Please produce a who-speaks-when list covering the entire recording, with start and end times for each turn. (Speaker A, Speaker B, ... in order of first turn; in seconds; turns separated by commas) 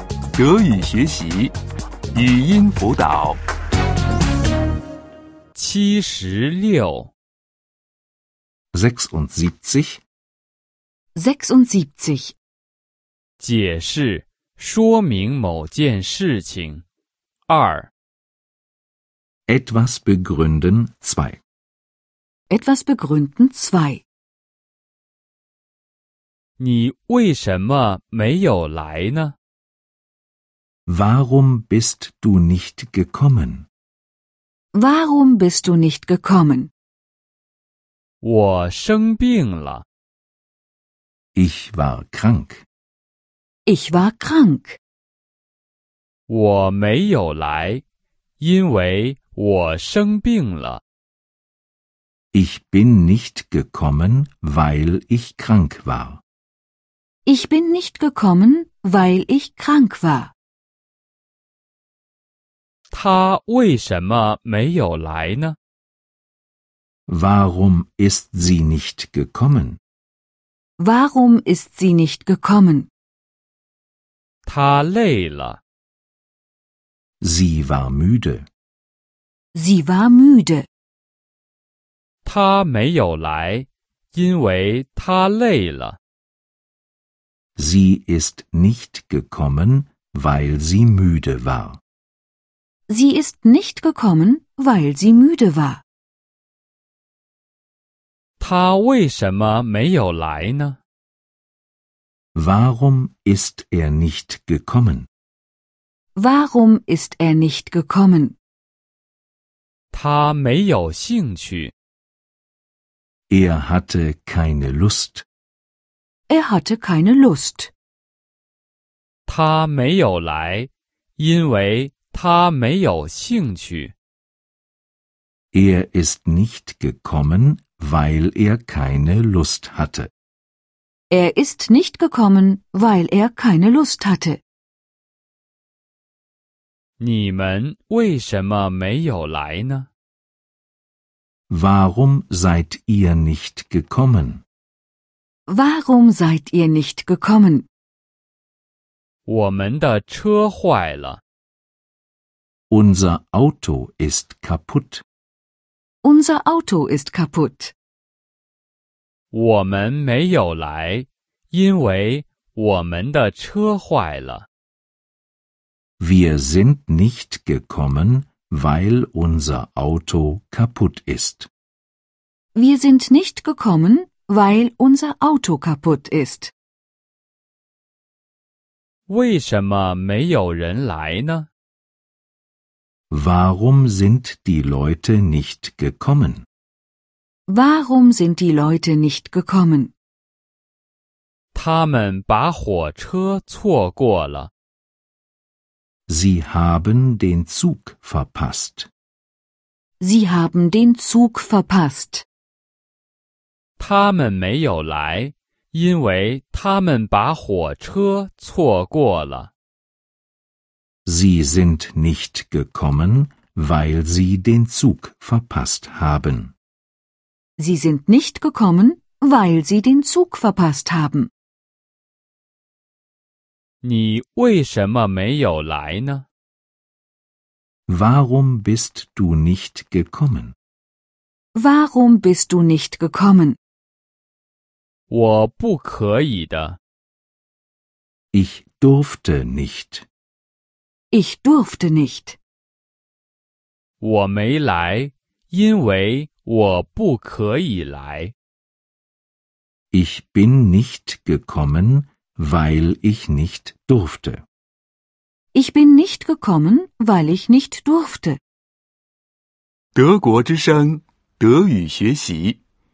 Speaker A: 0.3-1.5, Speaker A: 2.1-3.4, Speaker B: 5.5-7.1, Speaker C: 8.7-10.0, Speaker D: 11.1-12.3, Speaker B: 13.4-16.8, Speaker B: 17.5-17.9, Speaker C: 19.5-21.4, Speaker D: 22.5-24.0, Speaker B: 26.6-29.3, Speaker C: 30.9-33.7, Speaker D: 34.7-36.7, Speaker B: 38.2-39.8, Speaker C: 41.3-42.6, Speaker D: 43.6-44.8, Speaker B: 46.3-47.8, Speaker B: 48.4-50.8, Speaker C: 52.3-56.2, Speaker D: 57.2-60.3, Speaker B: 62.9-65.6, Speaker C: 67.1-69.8, Speaker D: 70.8-72.9, Speaker B: 74.5-75.6, Speaker C: 77.2-78.5, Speaker D: 79.5-80.7, Speaker B: 82.2-86.0, Speaker C: 87.6-91.8, Speaker D: 92.9-95.8, Speaker B: 98.4-100.8, Speaker C: 102.3-105.1, Speaker D: 106.2-108.4, Speaker B: 109.9-111.7, Speaker C: 113.3-115.2, Speaker D: 116.3-117.7, Speaker B: 119.3-123.9, Speaker C: 125.5-130.1, Speaker D: 131.1-134.4, Speaker B: 137.0-139.9, Speaker C: 141.5-144.4, Speaker D: 145.5-147.7, Speaker B: 149.2-151.2, Speaker C: 152.7-155.0, Speaker D: 156.0-157.7, Speaker B: 159.3-164.4, Speaker C: 166.0-171.5, Speaker D: 172.5-176.5, Speaker B: 179.1-181.5, Speaker C: 183.1-186.4, Speaker D: 187.5-189.9, Speaker B: 191.5-194.5, Speaker C: 196.1-198.9, Speaker D: 200.0-202.2, Speaker B: 203.8-209.5, Speaker C: 211.0-216.5, Speaker D: 217.6-221.3, Speaker B: 223.8-226.2, Speaker C: 227.9-230.5, Speaker D: 231.5-233.6, Speaker B: 235.1-236.8, Speaker C: 238.3-240.1, Speaker D: 241.1-242.4, Speaker B: 244.0-248.3, Speaker C: 249.9-254.4, Speaker D: 255.5-258.4, Speaker A: 259.9-262.6